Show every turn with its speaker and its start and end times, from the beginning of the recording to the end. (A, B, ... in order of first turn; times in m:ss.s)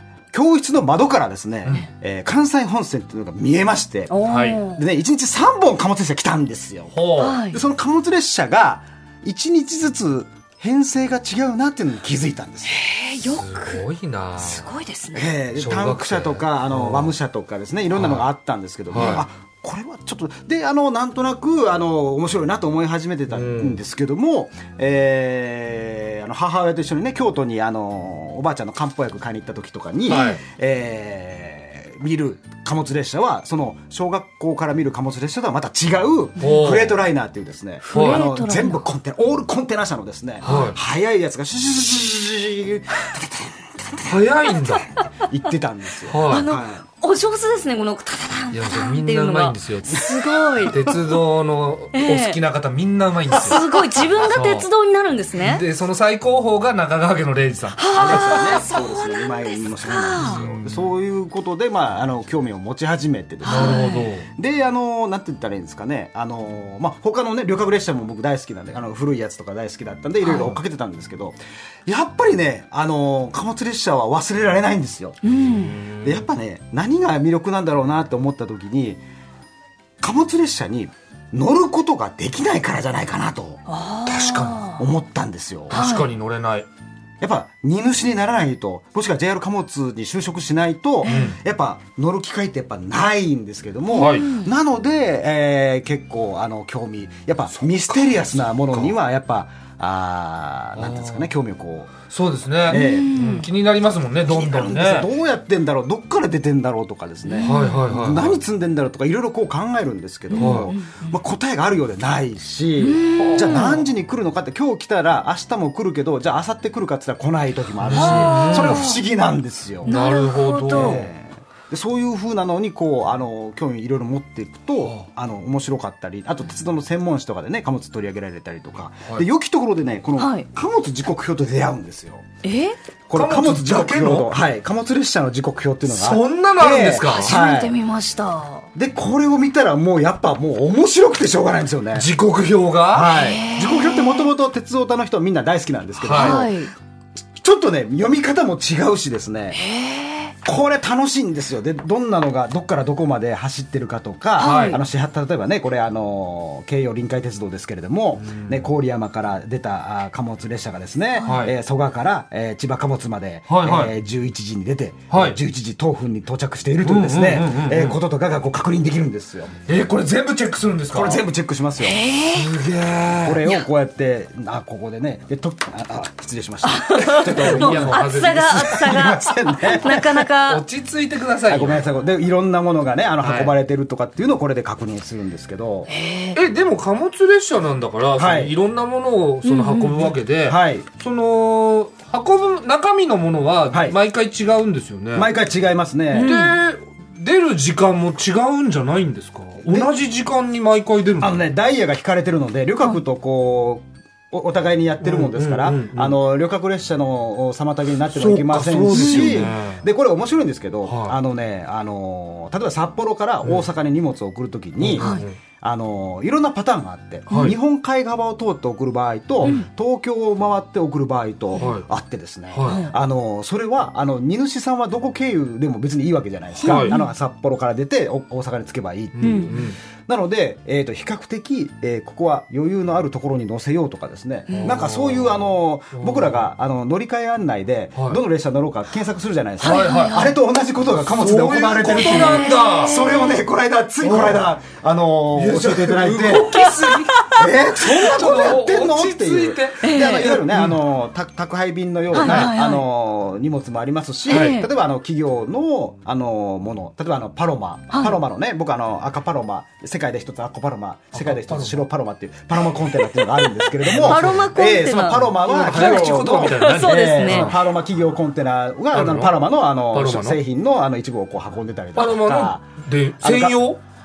0:00.3-0:12.9 A
0:04.1-0:04.8 B
0:04.3-0:04.6 C
0:06.9-0:07.4 C
0:07.2-0:07.6 B
0:12.6-0:13.8 B
0:13.2-0:14.7 C
0:14.4-0:15.3 B
0:15.1-0:44.3 A
0:15.6-0:17.1 C
0:17.9-0:18.2 C
0:18.9-0:19.2 C
0:23.3-0:23.8 C
0:30.1-0:30.4 C
0:30.1-0:30.4 B
0:36.4-0:37.0 C
0:37.8-0:38.8 B
0:37.9-0:38.2 C
0:40.4-0:40.8 B
0:40.4-0:40.8 C
0:44.0-0:44.9 C
0:45.3-0:46.9 A
0:46.1-0:46.5 C
0:46.3-0:50.9 B
0:48.5-0:50.1 C
0:50.6-0:53.6 C
0:51.9-0:52.4 B
0:53.4-0:55.6 B
0:54.3-0:54.7 C
0:55.4-0:58.4 C
0:57.8-1:00.4 B
0:57.9-1:15.2 A
1:00.2-1:00.9 C
1:03.4-1:04.1 B
1:03.5-1:04.3 C
1:10.2-1:10.6 B
1:15.2-1:15.8 B
1:15.5-1:16.3 C
1:15.8-1:19.0 A
1:20.0-1:23.6 A
1:23.7-1:24.8 B
1:24.1-1:24.6 C
1:24.8-1:25.9 A
1:25.7-1:26.7 C
1:25.7-1:26.1 B
1:27.2-1:42.0 A
1:31.0-1:31.3 B
1:31.0-1:31.4 C
1:33.9-1:34.5 B
1:33.9-1:34.3 C
1:37.6-1:39.0 C
1:40.8-1:41.3 C
1:42.1-1:45.1 C
1:42.7-1:43.1 A
1:42.7-1:43.5 B
1:44.2-1:59.9 A
1:47.3-1:47.8 B
1:47.4-1:48.4 C
1:50.3-1:51.2 B
1:50.4-1:50.7 C
1:52.8-1:53.8 B
1:53.2-1:53.9 C
1:57.8-1:58.9 C
1:57.9-1:59.0 B
1:59.8-2:01.1 C
1:59.9-2:01.0 B
2:00.7-2:12.3 A
2:10.2-2:10.5 B
2:12.4-2:12.8 B
2:13.1-2:17.7 A
2:13.1-2:14.3 C
2:15.9-2:17.4 C
2:17.0-2:18.7 B
2:18.8-2:22.1 A
2:21.9-2:23.1 C
2:22.9-2:26.6 A
2:23.1-2:24.3 B
2:26.0-2:26.5 C
2:26.2-2:26.7 B
2:27.4-2:29.6 A
2:29.5-2:30.3 B
2:30.4-2:49.6 A
2:34.4-2:34.8 B
2:34.4-2:34.8 C
2:38.2-2:38.6 C
2:41.2-2:41.4 B
2:41.2-2:41.5 C
2:43.5-2:43.9 C
2:45.1-2:45.4 C
2:46.8-2:48.0 C
2:49.7-2:51.2 C
2:50.9-2:52.0 A
2:51.8-2:52.5 B
2:52.3-2:53.4 C
2:53.2-3:00.2 A
2:56.6-3:00.6 B
2:57.2-2:59.1 C
2:59.9-3:01.8 C
3:01.4-3:05.9 A
3:03.2-3:03.5 C
3:05.9-3:06.4 B
3:06.4-3:15.3 C
3:08.2-3:08.6 A
3:09.4-3:10.2 B
3:10.5-3:10.9 A
3:13.7-3:14.0 A
3:15.1-3:16.4 A
3:16.1-3:16.6 B
3:16.2-3:21.4 C
3:19.6-3:19.9 A
3:21.2-4:06.6 A
3:25.0-3:26.2 C
3:28.1-3:29.8 C
3:28.9-3:29.4 B
3:30.9-3:31.2 C
3:34.8-3:35.4 C
3:35.0-3:35.3 B
3:37.3-3:37.6 B
3:37.3-3:37.6 C
3:41.6-3:41.8 C
3:42.5-3:42.8 C
3:42.6-3:42.9 B
3:46.6-3:47.1 B
3:46.6-3:46.9 C
3:49.2-3:49.8 C
3:49.2-3:49.5 B
3:54.5-3:56.5 C
3:58.0-3:58.2 C
3:59.6-4:00.3 B
3:59.6-4:00.3 C
4:01.0-4:03.0 C
4:01.9-4:03.4 B
4:04.0-4:04.4 C
4:05.4-4:07.3 C
4:06.3-4:07.3 B
4:07.3-4:32.6 A
4:07.9-4:10.8 C
4:09.8-4:10.3 B
4:12.1-4:12.8 B
4:12.2-4:12.5 C
4:14.3-4:14.6 C
4:14.3-4:14.7 B
4:17.9-4:18.2 B
4:21.1-4:21.8 C
4:23.2-4:23.4 B
4:23.9-4:24.5 C
4:24.0-4:27.5 B
4:25.5-4:27.6 C
4:28.9-4:30.4 C
4:32.0-4:33.8 C
4:33.2-4:33.6 A